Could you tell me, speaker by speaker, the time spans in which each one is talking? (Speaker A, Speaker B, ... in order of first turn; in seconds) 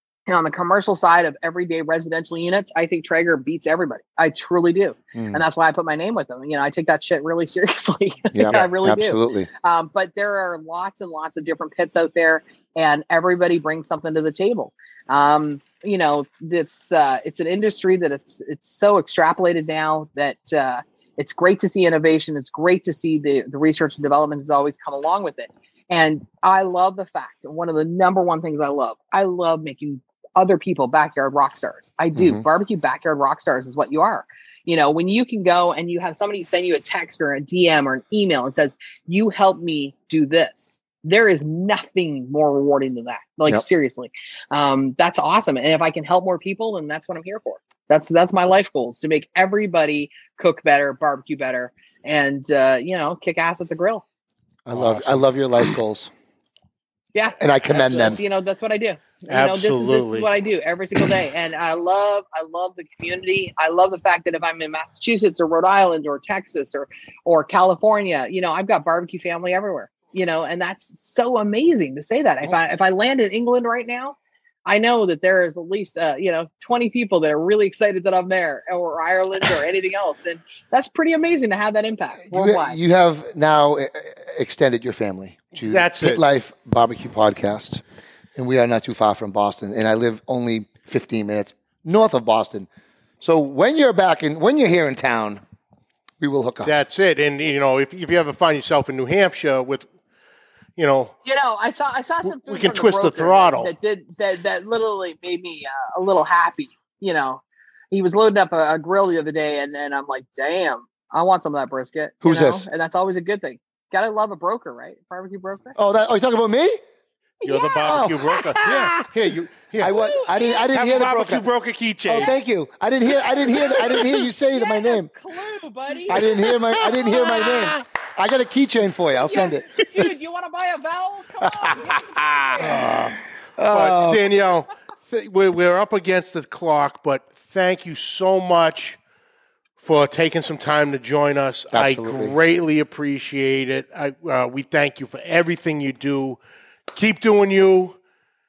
Speaker A: 0.3-54.0, 57.1-74.2, 74.7-82.8, 101.2-115.7, 117.4-118.1, 119.9-120.7, 123.5-127.5, 129.2-132.8
Speaker B: 5.1-5.4, 8.3-9.5, 32.1-32.4, 54.6-56.1, 57.4-58.2, 82.3-87.8, 88.3-92.7, 93.2-95.4, 96.2-96.8, 112.2-112.7, 115.8-116.8, 117.8-119.1, 119.8-121.5, 122.1-125.1, 126.1-130.0, 132.6-134.2, 141.7-142.3
Speaker C: 54.7-55.3, 59.3-60.3, 85.5-86.2, 96.6-99.9, 100.8-101.1, 102.3-103.7, 117.4-120.2, 120.7-122.3, 126.7-127.8, 133.7-139.0, 139.8-146.4, 146.9-148.0